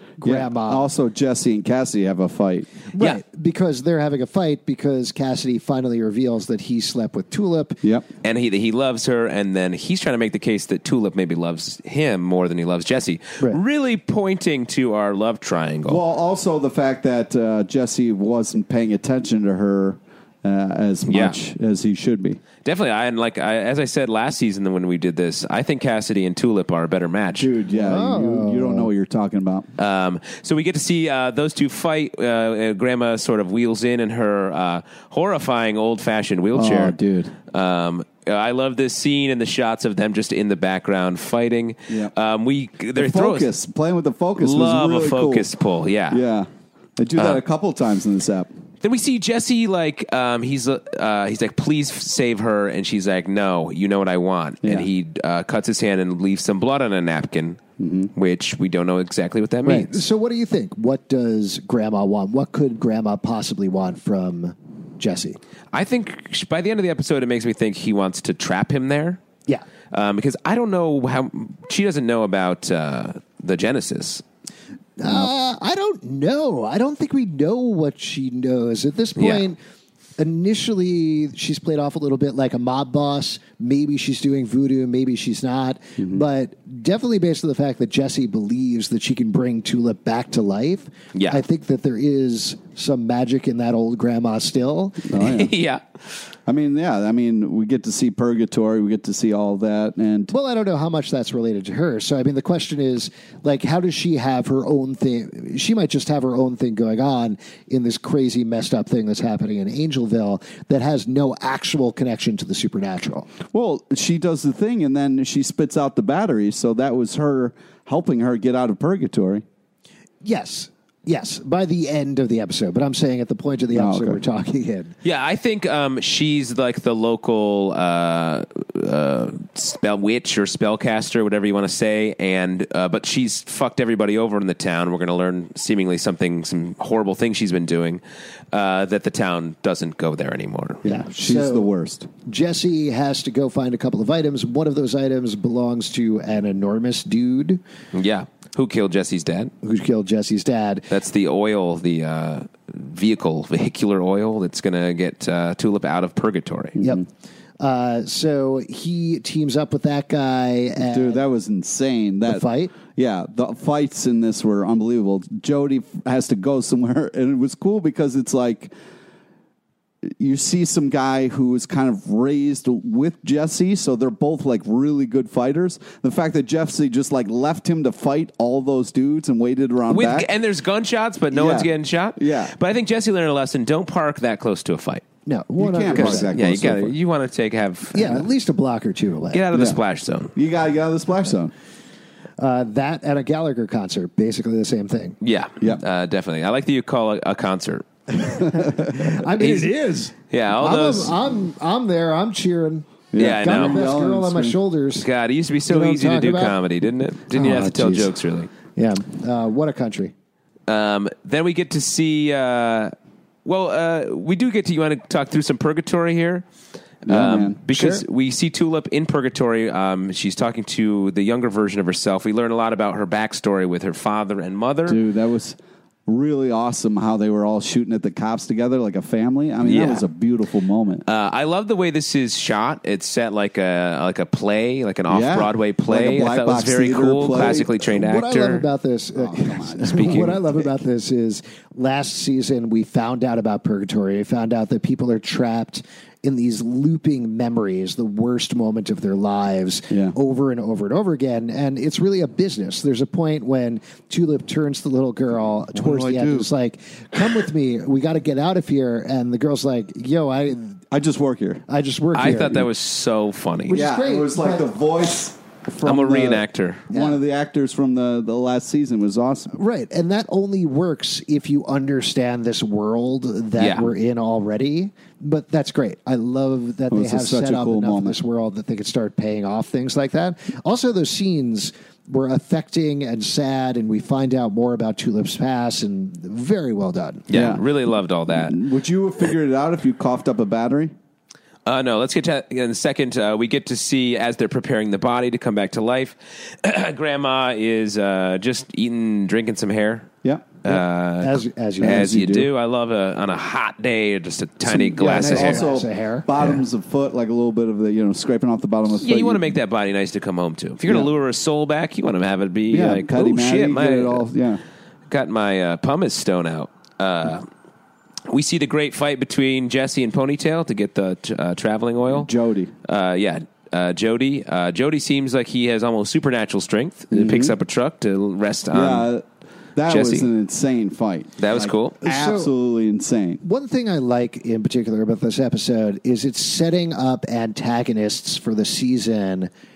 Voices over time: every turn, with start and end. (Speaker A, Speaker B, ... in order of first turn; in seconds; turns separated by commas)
Speaker A: 0.2-0.9, Speaker B: 0.2-2.7, Speaker A: 2.9-7.8, Speaker C: 8.2-16.0, Speaker B: 15.8-22.4, Speaker C: 21.1-21.4, Speaker C: 22.6-27.5, Speaker B: 27.3-29.7, Speaker A: 27.8-28.9, Speaker C: 29.8-37.0, Speaker B: 36.5-37.3, Speaker C: 37.5-43.5, Speaker B: 41.9-42.1, Speaker B: 42.9-45.5, Speaker C: 44.4-46.2, Speaker B: 46.1-48.5, Speaker C: 47.2-47.4, Speaker C: 48.8-57.6, Speaker B: 54.6-54.9, Speaker B: 57.8-58.1, Speaker C: 58.1-60.0, Speaker A: 59.6-65.4, Speaker C: 65.7-69.2, Speaker C: 69.9-74.2, Speaker A: 75.0-79.6, Speaker C: 79.2-79.4, Speaker A: 80.2-95.2, Speaker C: 91.1-91.4, Speaker B: 95.1-95.5, Speaker C: 95.2-95.8, Speaker B: 96.5-100.3, Speaker A: 100.3-113.3, Speaker B: 113.5-119.4, Speaker A: 120.2-124.9, Speaker B: 123.7-124.2, Speaker C: 125.0-140.8, Speaker A: 140.8-141.7, Speaker B: 140.8-142.1, Speaker A: 142.2-147.6, Speaker C: 147.9-149.5, Speaker A: 149.6-150.9, Speaker C: 150.9-156.8, Speaker B: 156.8-157.0, Speaker A: 157.6-161.2, Speaker B: 160.8-168.7, Speaker A: 162.2-162.7, Speaker B: 170.2-180.3, Speaker C: 179.9-185.0, Speaker B: 181.3-182.5, Speaker A: 185.2-186.3, Speaker B: 185.6-187.0, Speaker C: 185.9-188.3, Speaker A: 187.9-189.4, Speaker C: 189.3-190.3, Speaker B: 189.5-189.8, Speaker B: 190.3-191.5, Speaker A: 192.4-195.2, Speaker C: 195.2-197.8, Speaker A: 198.1-205.1, Speaker C: 199.4-199.7, Speaker C: 200.3-201.2, Speaker B: 203.1-204.6, Speaker C: 203.2-203.8, Speaker C: 204.9-208.5, Speaker A: 205.7-206.6, Speaker A: 207.3-208.1, Speaker A: 208.7-210.1, Speaker C: 210.7-212.9, Speaker C: 213.4-216.4, Speaker C: 217.0-225.0, Speaker B: 217.1-217.6, Speaker A: 217.7-218.0, Speaker B: 224.8-231.0, Speaker C: 229.6-230.0, Speaker C: 231.1-238.7, Speaker B: 235.1-237.6, Speaker A: 237.3-260.8, Speaker B: 239.1-240.5, Speaker C: 239.8-240.4, Speaker B: 255.7-256.5, Speaker B: 260.9-261.6, Speaker A: 261.7-262.7, Speaker C: 262.1-263.8, Speaker A: 263.6-264.7, Speaker B: 263.7-269.6, Speaker C: 265.8-266.8, Speaker A: 266.9-267.2, Speaker A: 269.5-287.2, Speaker C: 273.6-273.9, Speaker B: 276.9-278.2, Speaker C: 287.3-288.5, Speaker B: 287.3-287.6, Speaker B: 288.3-290.9, Speaker C: 291.6-300.1, Speaker B: 300.2-300.5, Speaker C: 300.6-305.6, Speaker A: 300.6-302.1, Speaker B: 301.8-302.5, Speaker B: 304.6-309.6, Speaker A: 304.9-306.3, Speaker C: 308.9-314.3, Speaker B: 312.7-314.6, Speaker C: 315.1-317.4, Speaker C: 318.3-322.3, Speaker B: 322.1-322.7, Speaker C: 322.8-329.1, Speaker B: 327.1-327.5, Speaker B: 328.7-329.2, Speaker B: 329.8-333.4, Speaker C: 329.9-330.3, Speaker C: 331.4-332.0, Speaker A: 332.0-332.5, Speaker A: 333.4-339.5